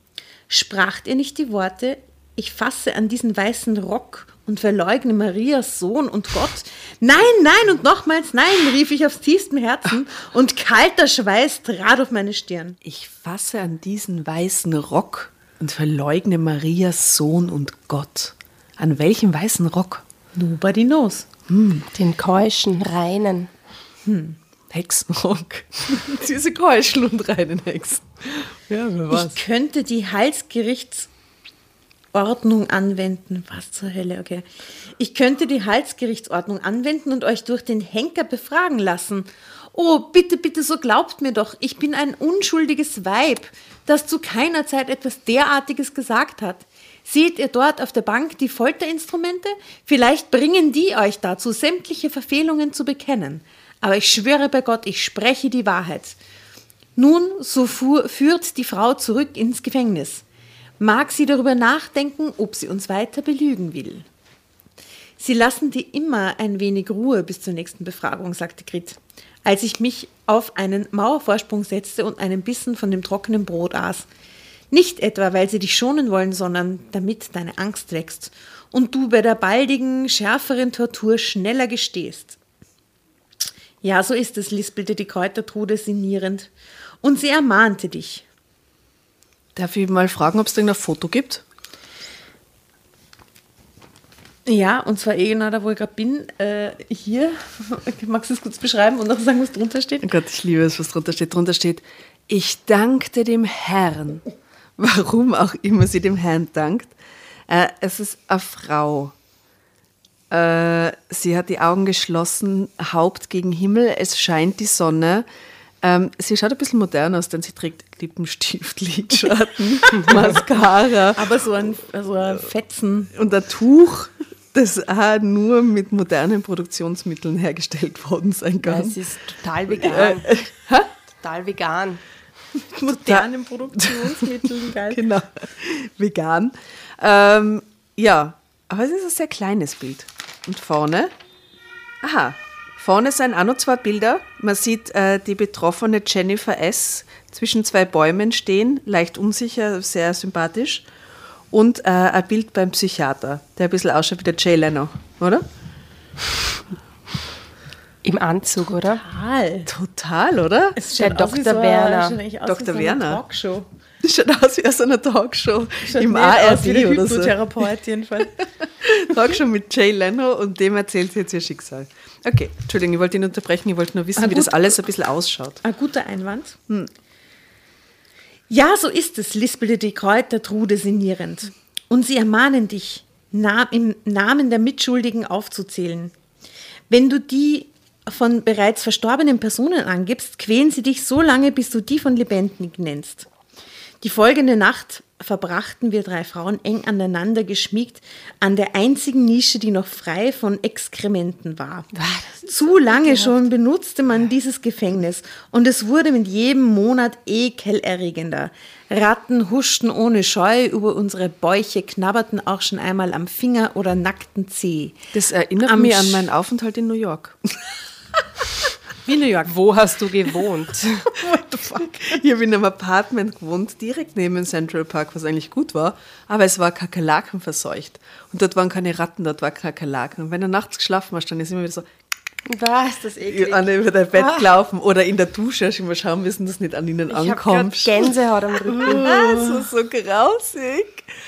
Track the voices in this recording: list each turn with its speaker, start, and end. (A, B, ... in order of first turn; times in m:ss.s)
0:00.5-0:12.8 A
0:12.8-0:20.0 B
0:20.3-0:21.3 A
0:21.5-0:21.9 B
0:21.9-0:23.5 C
0:24.0-0:24.4 A
0:24.7-0:29.4 B
0:29.1-0:31.1 A
0:32.1-0:34.4 A
0:35.0-0:56.2 A
0:57.0-1:00.2 A
1:00.8-1:04.0 A
1:05.2-1:14.1 A
1:14.7-1:22.4 A
1:23.8-1:26.5 A
1:27.0-1:28.2 A
1:29.6-1:31.4 B
1:34.4-1:40.1 A
1:40.0-1:44.2 B
1:44.8-1:46.9 B
1:47.5-1:49.1 B
1:50.3-1:55.2 B
1:55.8-2:01.3 B
2:01.2-2:03.1 A
2:03.1-2:09.0 B
2:08.6-2:10.3 C
2:09.7-2:10.9 B
2:11.2-2:12.0 C
2:12.7-2:15.0 A
2:13.0-2:21.1 B
2:22.0-2:30.8 B
2:31.5-2:35.4 B
2:38.0-2:39.0 C
2:38.9-2:39.7 A
2:39.7-2:40.8 B
2:40.8-2:43.7 A
2:40.9-2:42.2 C
2:42.4-2:43.2 B
2:44.0-2:47.4 B
2:45.9-2:48.4 A
2:48.6-2:55.6 B
2:54.2-2:54.7 A
2:55.6-2:56.6 A
2:58.5-3:06.1 A
3:06.9-3:13.3 A
3:14.0-3:35.0 A
3:22.0-3:23.4 C
3:35.1-3:37.7 B
3:35.6-3:36.3 A
3:39.1-3:39.5 A
3:39.4-3:41.1 C
3:41.3-3:51.8 B
3:52.4-3:54.5 C
3:53.2-3:58.1 B
3:57.1-3:59.2 C
3:58.7-4:01.1 B
3:59.0-3:59.6 A